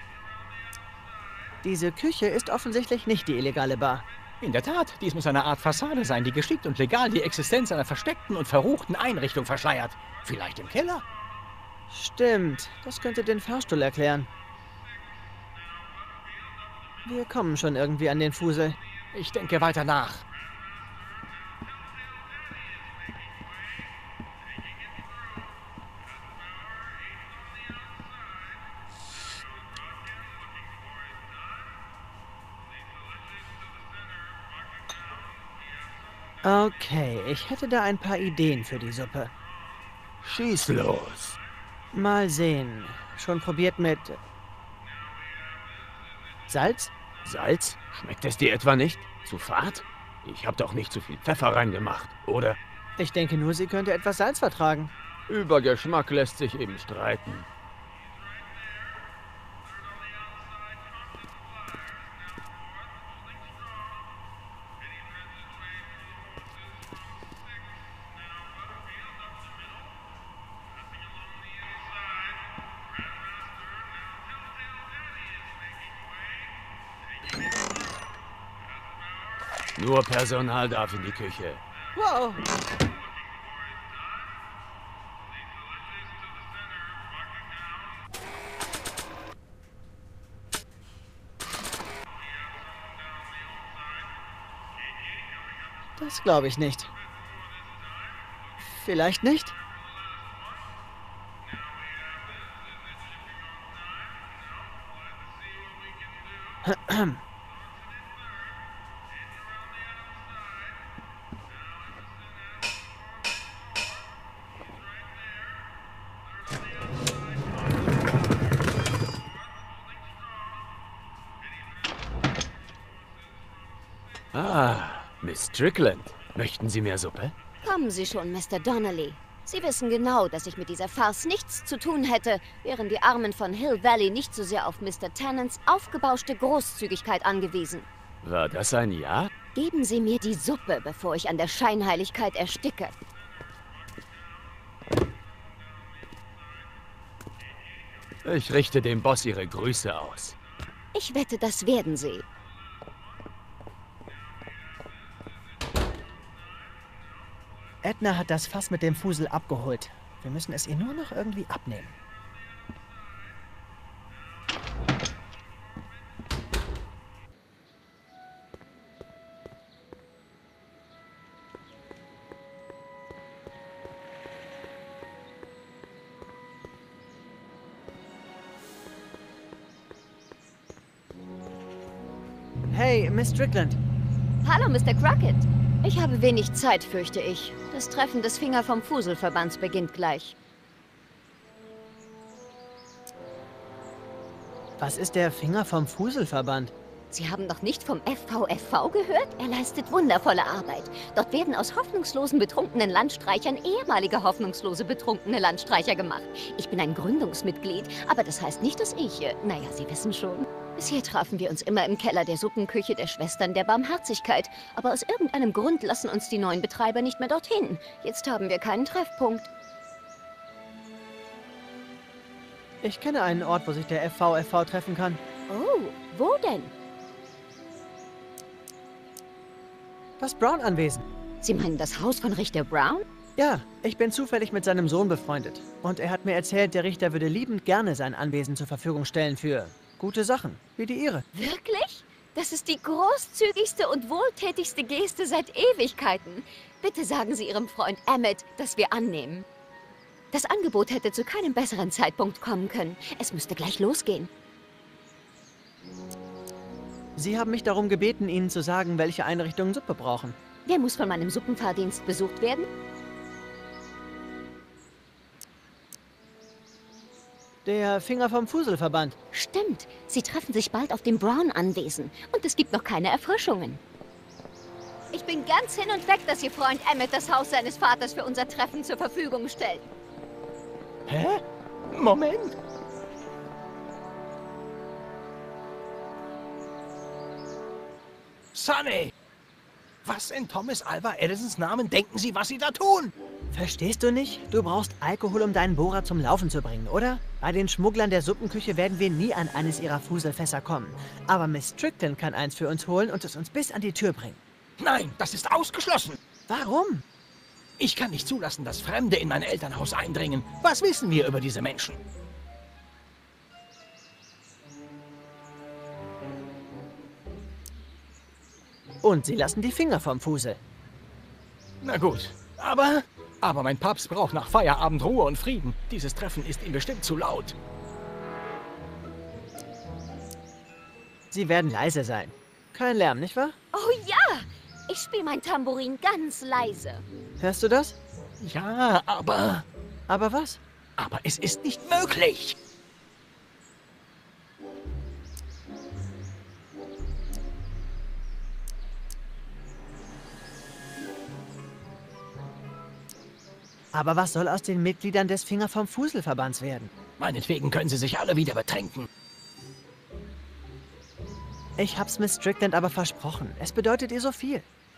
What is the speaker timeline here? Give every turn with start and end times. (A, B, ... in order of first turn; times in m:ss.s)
0:01.6-0:04.0 A
0:04.4-0:11.0 B
0:11.9-0:14.3 A
0:17.0-0:18.8 A
0:19.1-0:20.2 B
0:36.4-0:39.3 A
0:40.2-0:41.4 C
0:41.9-0:44.2 A
0:46.5-0:46.9 A
0:47.2-0:52.6 C
0:53.0-0:54.9 A
0:55.3-0:57.5 C
1:19.8-1:21.6 C
1:22.0-1:22.4 A
1:36.0-1:36.9 A
1:38.6-1:39.6 A
1:46.6-1:47.2 A
2:04.3-2:07.3 C
2:07.6-2:17.9 D
2:18.2-2:19.3 C
2:19.6-2:22.9 D
2:28.2-2:30.4 C
2:30.9-2:32.2 D
2:37.8-2:41.9 A
3:02.7-3:03.8 A
3:04.4-3:10.4 D
3:14.8-3:16.7 A
3:17.1-3:39.5 D
3:42.8-3:45.2 A
3:45.5-3:46.7 D
3:50.2-3:51.0 A
3:51.4-3:53.0 D
3:53.4-4:01.2 A
4:01.4-4:09.5 D
4:10.3-4:14.3 D
4:17.2-4:20.4 A
4:20.7-4:22.7 D
4:27.6-4:29.2 A
4:29.3-4:33.8 D
4:35.1-4:39.9 D
4:41.1-4:42.6 B
4:48.5-4:49.1 B
4:50.0-4:53.1 B
4:53.5-5:04.4 A
5:04.8-5:06.2 B
5:06.5-5:07.0 A
5:07.8-5:12.0 B
5:19.0-5:20.6 A
5:21.8-5:27.6 B
5:31.3-5:33.6 A
5:33.7-5:37.0 D
5:37.4-5:38.0 A
5:38.4-5:39.7 B
5:40.1-5:40.6 A
5:41.0-5:42.6 B
5:53.9-5:56.9 A
5:57.2-5:59.1 B
6:01.8-6:04.7 A